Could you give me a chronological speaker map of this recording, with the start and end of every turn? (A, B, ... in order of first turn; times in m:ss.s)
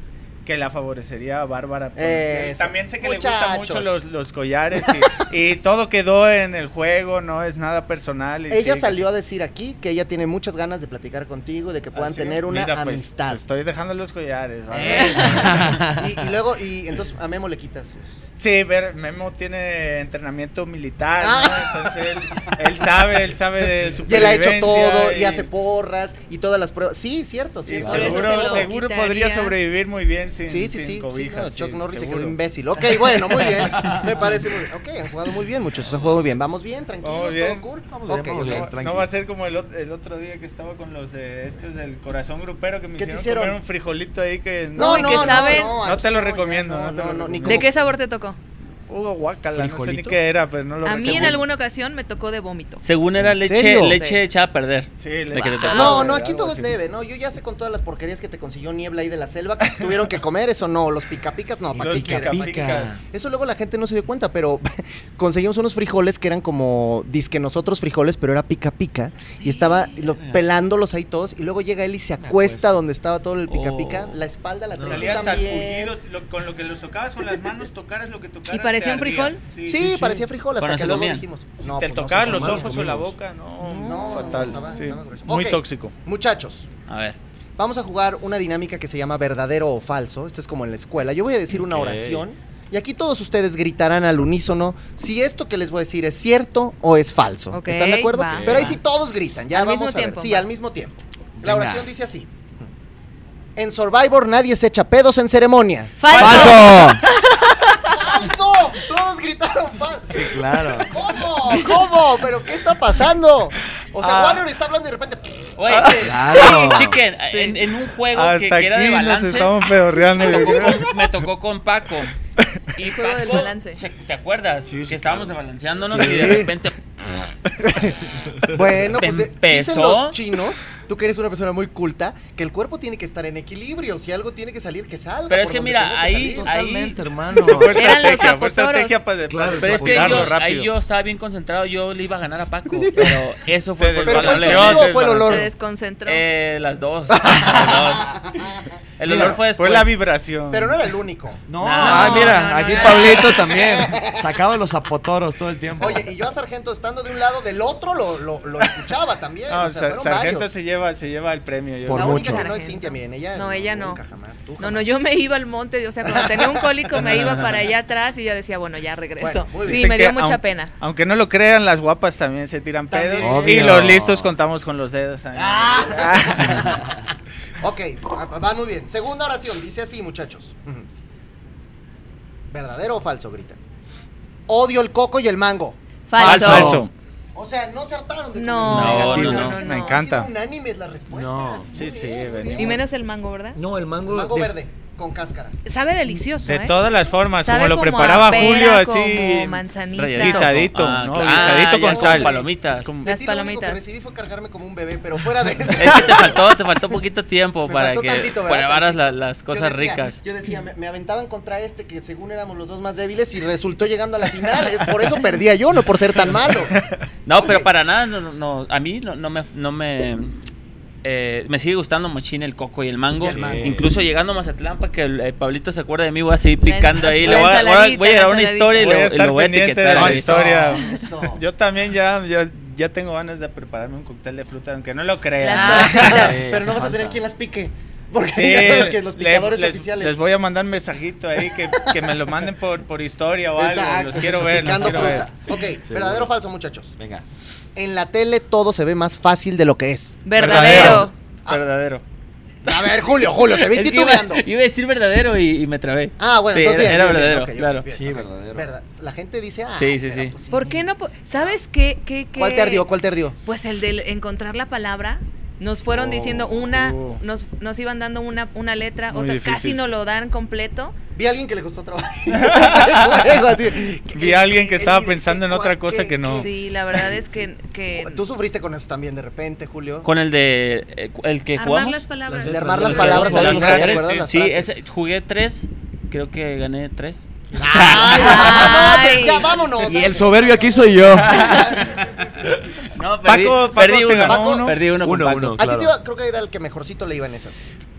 0:00.4-0:09.1 A
0:02.0-0:04.0 B
0:08.5-0:13.4 B
0:11.9-0:15.7 A
0:14.7-0:18.2 B
0:15.6-0:16.0 C
0:18.4-0:25.5 A
0:21.2-0:22.6 B
0:24.0-0:28.7 B
0:27.7-0:32.4 A
0:27.8-0:29.6 D
0:27.8-0:28.2 C
0:30.5-0:38.7 B
0:37.0-0:37.7 A
0:38.0-0:39.1 C
0:38.3-0:47.7 A
0:43.0-0:43.6 B
0:44.8-0:47.7 B
0:44.8-0:45.8 D
0:47.4-0:48.4 D
0:48.9-0:51.4 A
0:49.5-0:50.2 C
0:50.8-0:52.8 D
0:51.1-0:51.3 B
0:52.8-0:56.2 E
0:53.2-0:54.0 B
0:53.9-0:54.2 D
0:55.0-0:56.8 A
0:55.4-0:56.1 D
0:55.7-1:16.0 B
1:01.8-1:02.9 A
1:01.8-1:03.0 C
1:09.4-1:10.0 D
1:12.2-1:12.7 C
1:13.5-1:14.2 E
1:14.8-1:15.2 C
1:14.8-1:20.2 A
1:18.4-1:19.4 D
1:19.7-1:22.9 B
1:20.6-1:21.2 E
1:21.6-1:26.0 A
1:22.1-1:23.1 C
1:23.6-1:24.9 D
1:23.8-1:26.7 B
1:26.9-1:27.2 E
1:27.6-1:42.7 B
1:31.5-1:32.2 C
1:37.5-1:38.7 D
1:38.3-1:38.8 C
1:39.5-1:40.5 D
1:41.4-1:41.9 C
1:43.6-1:46.7 B
1:46.0-1:48.2 D
1:46.1-1:47.0 C
1:46.2-1:46.5 E
1:47.8-1:56.2 B
1:50.1-1:51.0 C
1:54.0-1:54.4 A
1:55.6-2:02.1 E
1:55.7-2:01.1 A
1:56.0-1:57.0 C
2:02.8-2:06.8 E
2:02.8-2:03.8 D
2:04.7-2:05.4 C
2:05.9-2:06.4 C
2:05.9-2:06.5 B
2:07.6-2:16.5 B
2:09.0-2:10.2 E
2:15.3-2:17.0 E
2:16.3-2:18.0 C
2:17.4-2:20.7 A
2:17.7-2:19.0 D
2:19.3-2:20.4 C
2:19.4-2:25.0 E
2:22.8-2:23.2 B
2:23.8-2:25.5 A
2:24.0-2:25.5 B
2:25.1-2:26.2 D
2:26.0-2:29.9 E
2:27.1-2:28.6 B
2:29.1-2:29.4 B
2:29.1-2:30.8 A
2:30.5-2:34.3 B
2:31.5-2:36.1 C
2:31.6-2:32.8 E
2:31.8-2:33.4 D
2:35.8-2:40.5 B
2:39.5-2:42.3 A
2:41.8-2:42.5 C
2:41.9-2:44.9 B
2:42.0-2:44.0 D
2:44.6-2:50.7 D
2:46.0-2:47.0 B
2:49.2-2:49.9 B
2:49.6-2:56.8 A
2:52.9-2:53.9 B
2:53.2-2:54.3 C
2:55.3-2:57.0 B
2:57.6-3:00.9 B
3:02.5-3:03.6 B
3:04.5-3:06.7 B
3:06.1-3:06.9 D
3:06.2-3:06.9 A
3:06.4-3:06.8 C
3:07.3-3:12.8 B
3:08.4-3:10.0 D
3:08.7-3:09.6 E
3:08.8-3:10.3 A
3:11.1-3:11.7 C
3:11.7-3:12.8 A
3:12.5-3:13.6 D
3:13.5-3:14.5 C
3:14.0-3:15.5 B
3:15.6-3:16.9 D
3:16.4-3:23.1 A
3:17.4-3:20.6 D
3:20.0-3:22.9 E
3:21.2-3:26.4 B
3:23.0-3:23.8 D
3:25.8-3:30.2 E
3:27.7-3:36.8 B
3:36.7-3:37.0 A
3:37.2-3:40.4 E
3:37.4-3:37.7 B
3:41.0-3:50.4 E
3:43.2-3:43.8 B
3:43.2-3:43.9 C
3:46.6-3:48.9 D
3:47.2-3:47.5 A
3:48.8-3:56.4 A
3:49.9-3:51.4 B
3:55.4-3:56.4 D
3:55.5-4:00.2 B
3:55.8-3:57.2 C
3:58.4-4:05.3 A
4:01.7-4:02.2 B
4:03.6-4:07.0 B
4:04.4-4:05.3 C
4:05.8-4:06.3 C
4:07.0-4:07.2 C
4:07.8-4:11.6 B
4:10.2-4:11.2 D
4:10.4-4:11.1 A
4:10.4-4:12.0 E
4:12.6-4:14.4 B
4:12.7-4:17.9 E
4:16.2-4:21.6 B
4:17.9-4:18.7 C
4:19.7-4:20.4 E
4:20.5-4:22.9 D
4:22.4-4:23.4 B
4:23.4-4:31.0 D
4:26.0-4:27.2 A
4:29.1-4:29.8 A
4:31.1-4:40.1 B
4:32.4-4:33.3 A
4:34.1-4:36.5 A
4:36.2-4:38.2 D
4:40.0-4:42.0 E
4:41.6-4:43.3 D
4:42.3-4:44.1 C
4:42.4-4:44.8 B
4:42.7-4:48.8 E
4:43.0-4:43.6 A
4:47.5-4:52.5 B
4:47.6-4:48.9 C
4:48.0-4:49.5 D
4:49.8-4:52.0 C
4:51.1-4:51.7 A
4:52.9-4:55.6 E
4:53.2-4:54.8 A
4:54.2-4:54.8 B
4:55.0-4:55.9 C
4:55.6-4:57.7 B